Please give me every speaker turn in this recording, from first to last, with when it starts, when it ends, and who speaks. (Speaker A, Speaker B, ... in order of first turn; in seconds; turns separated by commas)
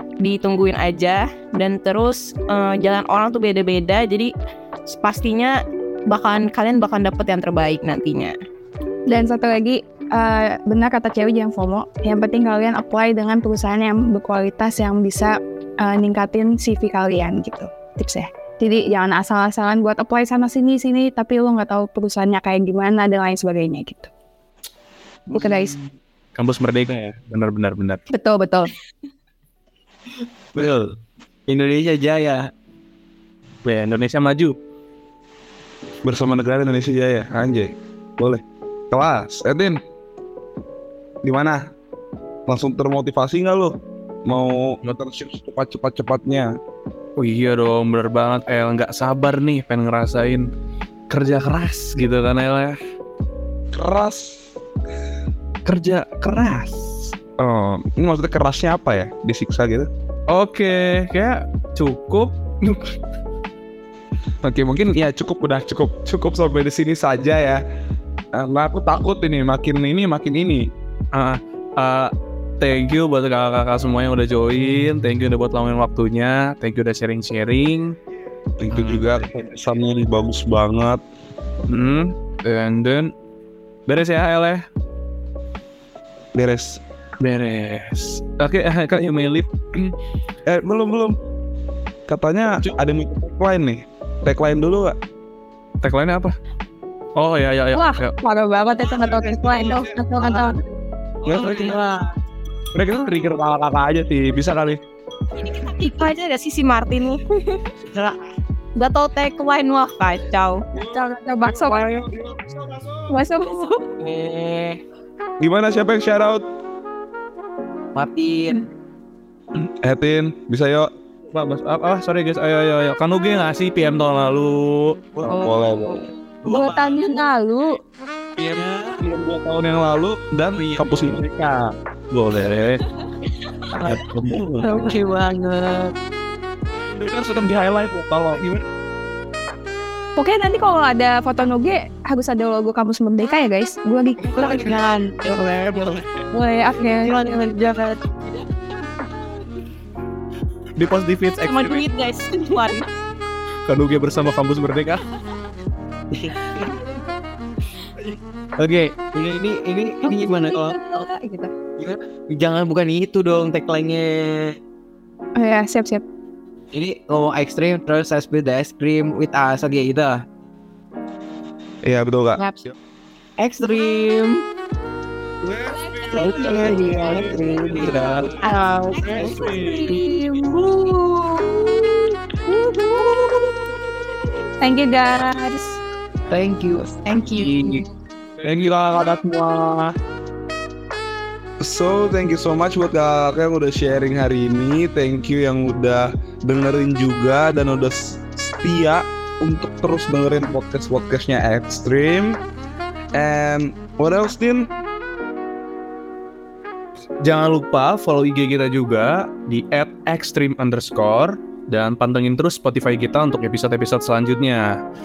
Speaker A: 0.2-4.3, Speaker A: 4.9-8.3, Speaker B: 9.1-24.1, Speaker B: 25.3-25.8, Speaker C: 26.4-28.0, Speaker B: 28.1-28.7, Speaker D: 30.5-30.9, Speaker D: 31.5-32.5, Speaker C: 33.6-34.6, Speaker E: 36.0-39.8, Speaker E: 41.2-41.6, Speaker E: 42.5-43.8, Speaker E: 44.3-46.5, Speaker C: 47.2-50.5, Speaker C: 51.1-52.8, Speaker E: 53.7-54.4, Speaker C: 55.6-57.1, Speaker E: 57.4-59.9, Speaker C: 60.3-62.8, Speaker E: 64.4-67.6, Speaker E: 68.3-70.7, Speaker C: 71.1-78.0, Speaker E: 78.6-81.0, Speaker C: 78.7-79.0, Speaker C: 81.7-83.1, Speaker C: 83.9-84.6, Speaker E: 86.3-86.8, Speaker C: 87.2-89.5, Speaker E: 90.5-91.2, Speaker E: 92.1-95.0, Speaker C: 92.5-92.7, Speaker C: 95.8-96.3, Speaker C: 97.2-98.2, Speaker B: 97.7-100.6, Speaker E: 101.2-101.8, Speaker D: 101.4-102.0, Speaker E: 102.7-104.8, Speaker A: 105.4-107.6, Speaker D: 107.9-108.2, Speaker A: 108.8-110.6, Speaker E: 110.8-113.1, Speaker B: 110.9-111.8, Speaker B: 113.1-113.9, Speaker D: 114.0-114.8, Speaker E: 115.4-116.4, Speaker D: 118.0-118.6, Speaker E: 119.6-120.9, Speaker C: 121.3-125.3, Speaker E: 125.2-126.0, Speaker B: 126.5-127.8, Speaker C: 126.5-126.8, Speaker E: 128.4-131.7, Speaker D: 128.6-129.0, Speaker C: 130.6-131.0, Speaker C: 132.1-132.8, Speaker D: 133.7-135.9, Speaker E: 133.9-134.6, Speaker C: 134.3-134.8, Speaker E: 137.0-138.7, Speaker B: 140.2-144.4, Speaker D: 144.2-146.3, Speaker B: 146.3-147.5, Speaker D: 146.8-148.1, Speaker C: 150.8-151.9, Speaker A: 151.4-152.9, Speaker C: 153.7-155.0, Speaker D: 156.1-156.7, Speaker D: 158.6-161.0, Speaker B: 160.0-161.5, Speaker D: 161.8-164.6, Speaker B: 165.4-166.0, Speaker D: 166.7-170.2, Speaker E: 171.8-172.4, Speaker D: 173.4-174.4, Speaker E: 175.4-178.4, Speaker A: 175.9-180.2, Speaker D: 176.1-183.6, Speaker E: 178.9-179.9, Speaker B: 179.2-180.2, Speaker B: 184.6-185.8, Speaker D: 186.3-187.8, Speaker A: 187.2-187.6, Speaker E: 188.4-189.8, Speaker E: 191.6-202.4, Speaker E: 203.1-204.7, Speaker C: 207.2-214.8